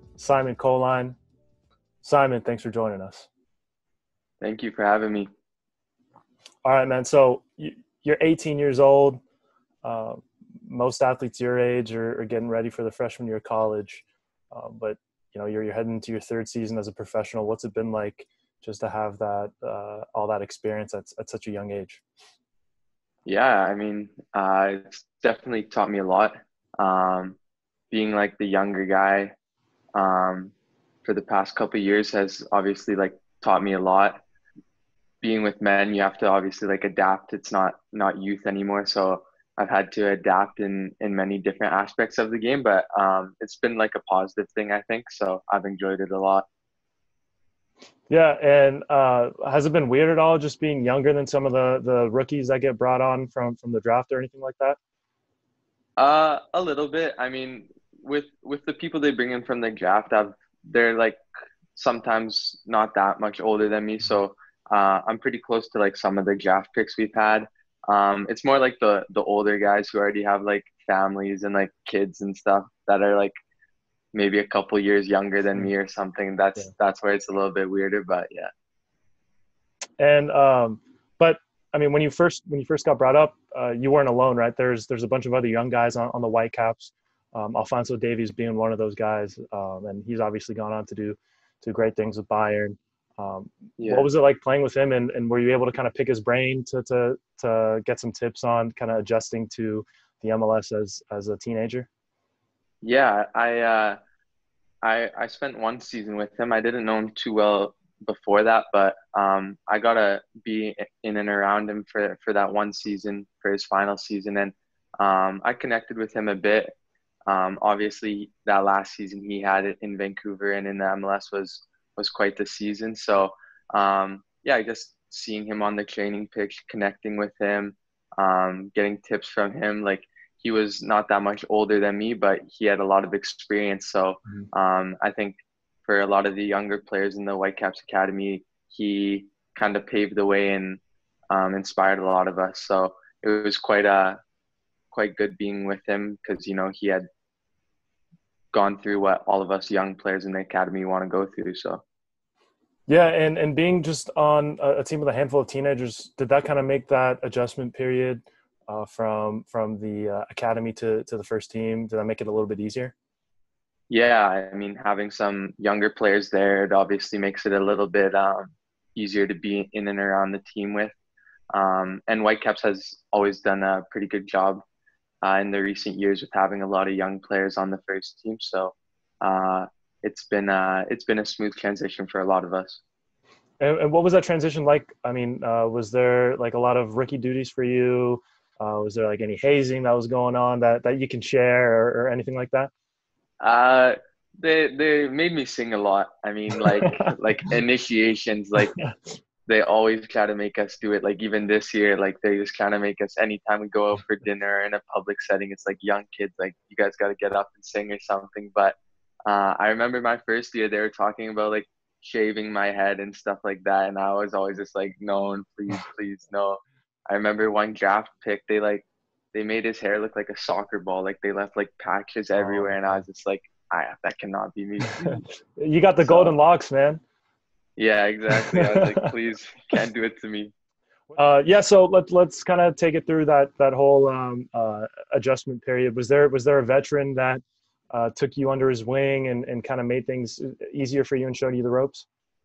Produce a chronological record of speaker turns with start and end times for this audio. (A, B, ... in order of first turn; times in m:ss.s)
0:00.2-0:01.2 A
0:02.0-0:03.3 A
0:04.4-0:05.3 B
0:06.6-0:09.2 A
0:09.8-0:22.0 A
0:23.3-0:27.4 B
0:27.9-0:29.3 B
0:30.0-0:34.2 B
0:35.2-0:46.5 B
0:48.1-0:54.8 A
0:56.0-1:01.2 B
1:01.8-1:13.3 B
1:14.1-1:18.5 B
1:20.0-1:41.9 A
1:33.8-1:34.1 B
1:42.8-1:44.0 B
1:44.8-1:56.7 B
1:57.3-2:20.8 B
2:21.3-2:24.2 B
2:24.9-2:27.0 B
2:28.5-2:31.8 B
2:32.9-2:42.9 A
2:43.9-2:51.0 B
2:51.5-2:54.6 B
2:55.2-3:02.8 B
3:03.6-3:12.7 A
3:13.4-3:18.8 B
3:19.5-3:45.2 B
3:42.4-3:43.0 A
3:45.0-3:47.0 A
3:46.0-3:46.3 B
3:47.8-3:50.5 B
3:48.5-3:49.0 A
3:51.1-4:02.1 A